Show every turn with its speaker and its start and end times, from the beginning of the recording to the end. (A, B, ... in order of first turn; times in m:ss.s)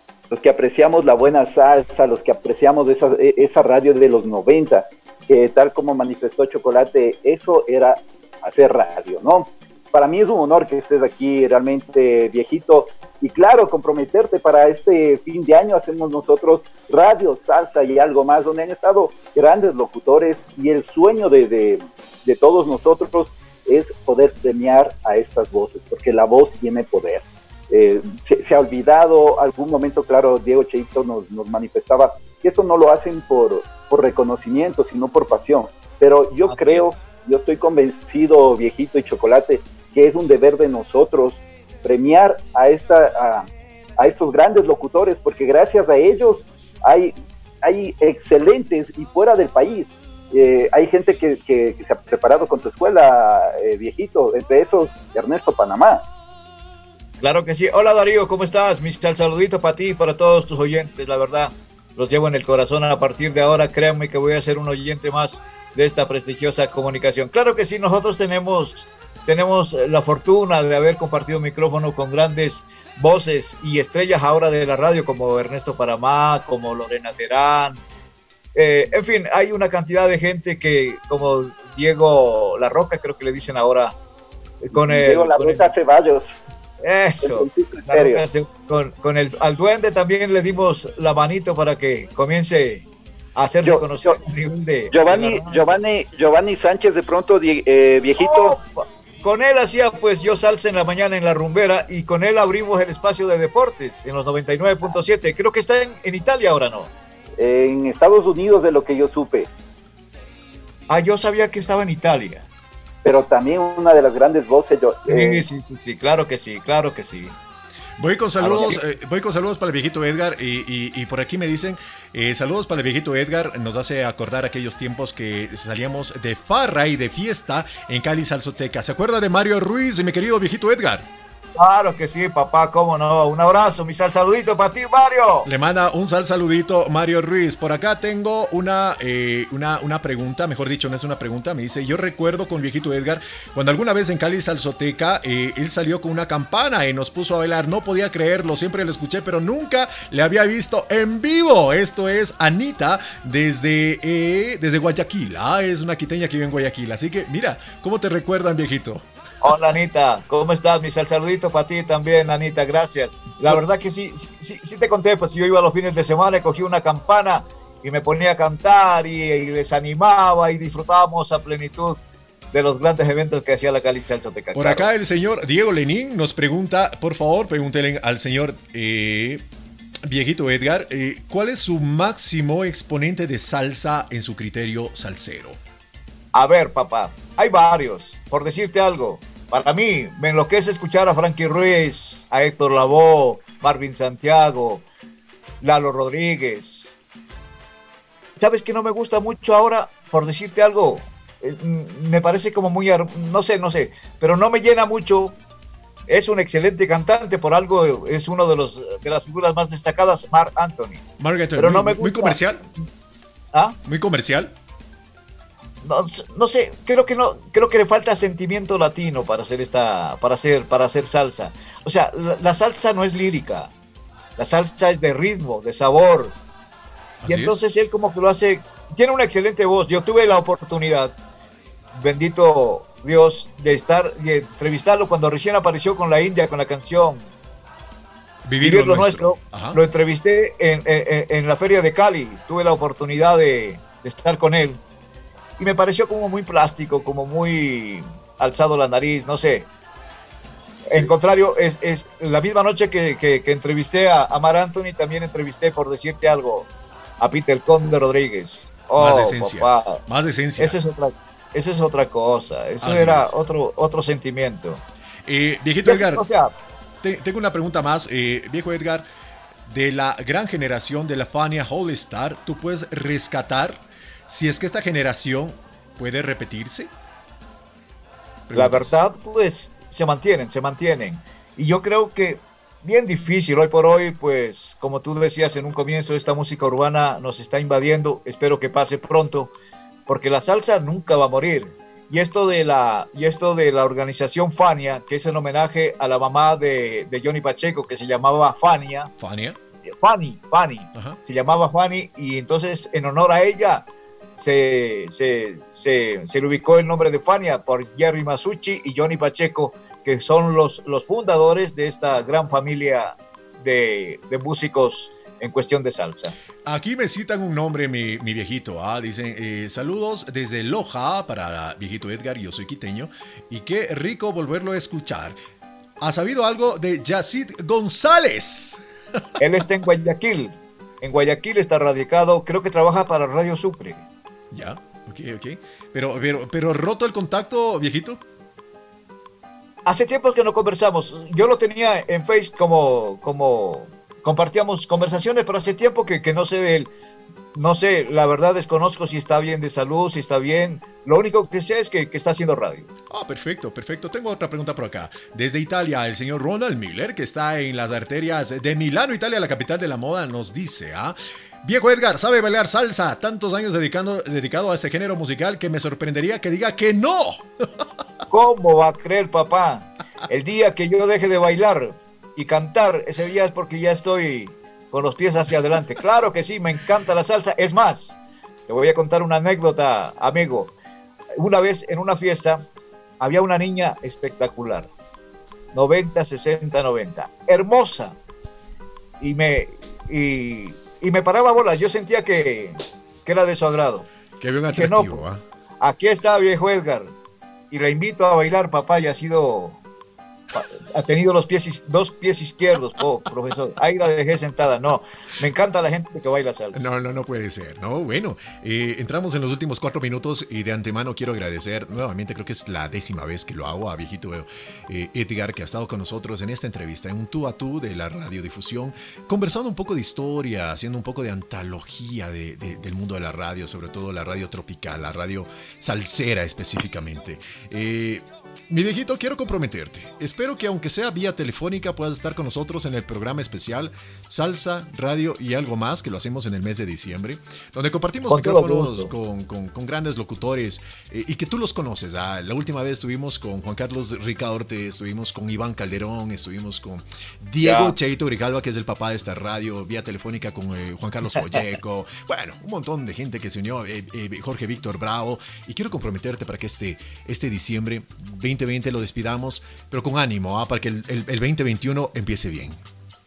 0:00.3-0:56.0 A
0:36.5-0:37.0 B
0:57.2-1:17.8 B
1:18.5-1:24.0 B
1:24.6-1:25.8 B
1:24.7-1:26.4 A
1:26.8-1:35.8 B
1:27.2-1:28.2 A
1:33.6-1:34.2 A
1:34.9-1:38.6 A
1:38.2-1:46.9 B
1:47.4-1:49.5 A
1:50.9-1:52.5 B
1:53.0-1:55.4 A
1:55.0-1:57.4 B
1:58.0-2:11.1 C
1:58.4-1:58.8 B
2:11.6-2:15.5 B
2:15.4-2:39.0 C
2:39.4-2:52.0 B
2:52.5-2:54.9 B
2:54.5-2:59.4 C
3:00.0-3:05.6 C
3:06.3-3:14.8 B
3:15.6-3:17.0 B
3:18.4-3:25.4 B
3:26.1-3:31.0 B
3:31.2-3:32.6 C
3:31.6-3:32.8 B
3:33.5-3:33.8 B
3:33.8-3:34.5 C
3:35.8-3:43.7 B
3:44.4-3:46.3 B
3:47.2-3:47.6 C
3:47.2-3:51.2 B
3:51.9-3:57.3 B
3:58.4-3:59.8 C
3:58.6-4:04.8 B
4:05.6-4:09.7 B
4:10.8-4:16.7 B
4:17.2-4:20.0 B
4:19.0-4:20.8 C
4:20.6-4:24.8 B
4:22.8-4:23.3 C
4:25.3-4:26.2 C
4:25.8-4:26.5 B
4:27.0-4:29.0 C
4:29.7-4:36.9 C
4:38.5-4:39.0 C
4:38.5-4:49.5 B
4:50.1-4:59.1 B
4:59.2-4:59.6 C
4:59.9-5:16.3 B
5:16.6-5:25.4 C
5:26.0-5:28.8 C
5:29.4-5:34.1 B
5:34.5-5:38.2 C
5:39.8-5:46.9 B
5:47.5-5:52.9 B
5:53.1-6:07.5 C
6:08.3-6:20.7 B
6:21.3-6:22.6 B
6:23.2-6:24.9 B
6:25.7-6:28.2 B
6:29.2-6:34.1 B
6:34.4-6:35.4 C
6:34.7-6:35.2 B
6:35.8-6:37.1 B
6:37.7-6:39.8 B
6:40.5-6:46.9 B
6:46.7-7:42.8 C
7:18.3-7:19.1 B
7:27.6-7:28.0 B